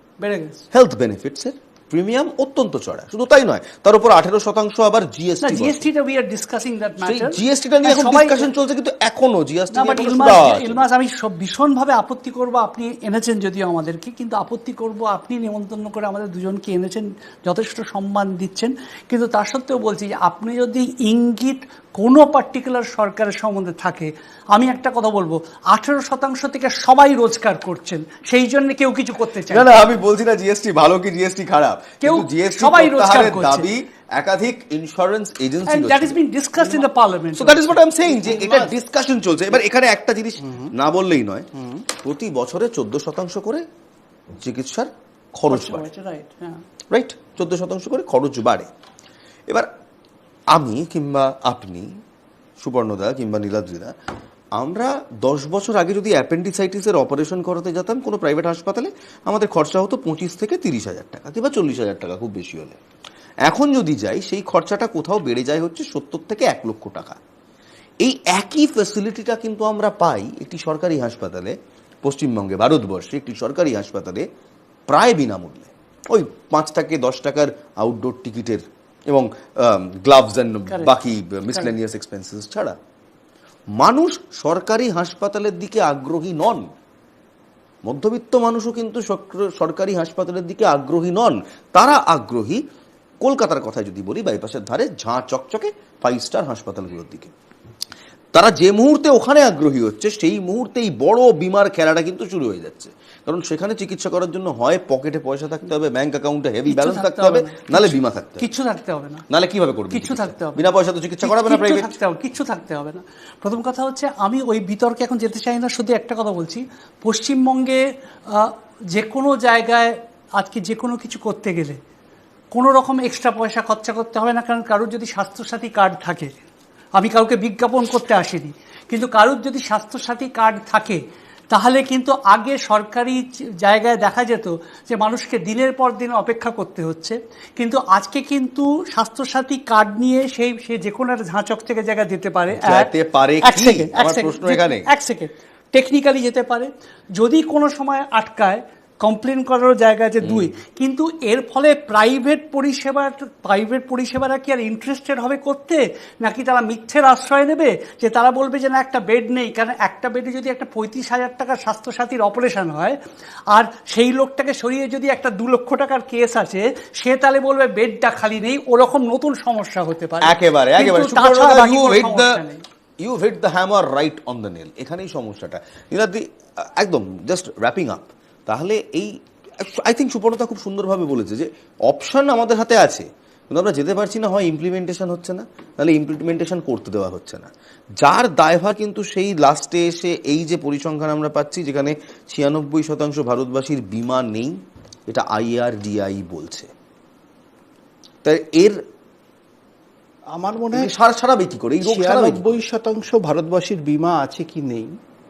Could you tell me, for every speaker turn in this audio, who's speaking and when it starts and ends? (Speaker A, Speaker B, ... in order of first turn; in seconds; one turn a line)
Speaker A: 0.2-0.7
Speaker B: 0.7-5.9
Speaker A: 5.4-8.5
Speaker B: 7.0-10.8
Speaker A: 9.7-30.0
Speaker B: 29.5-36.7
Speaker A: 32.0-33.7
Speaker A: 35.7-37.8
Speaker B: 37.4-43.7
Speaker C: 38.4-38.7
Speaker B: 44.4-45.9
Speaker A: 45.5-46.6
Speaker B: 46.9-48.7
Speaker B: 50.5-52.0
Speaker B: 52.6-53.9
Speaker B: 54.6-62.8
Speaker B: 63.5-67.2
Speaker B: 68.0-74.3
Speaker B: 74.9-82.8
Speaker B: 83.8-86.7
Speaker B: 87.8-92.6
Speaker B: 93.2-97.3
Speaker B: 98.3-108.5
Speaker A: 106.7-109.3
Speaker B: 109.3-111.9
Speaker A: 109.9-110.7
Speaker A: 111.2-121.8
Speaker A: 122.5-126.3
Speaker A: 127.0-142.9
Speaker B: 142.6-144.9
Speaker A: 143.4-163.0
Speaker A: 163.5-172.6
Speaker B: 170.2-172.4
Speaker B: 173.0-196.7
Speaker B: 198.2-198.8
Speaker C: 200.3-200.9
Speaker B: 200.7-202.6
Speaker C: 201.8-204.9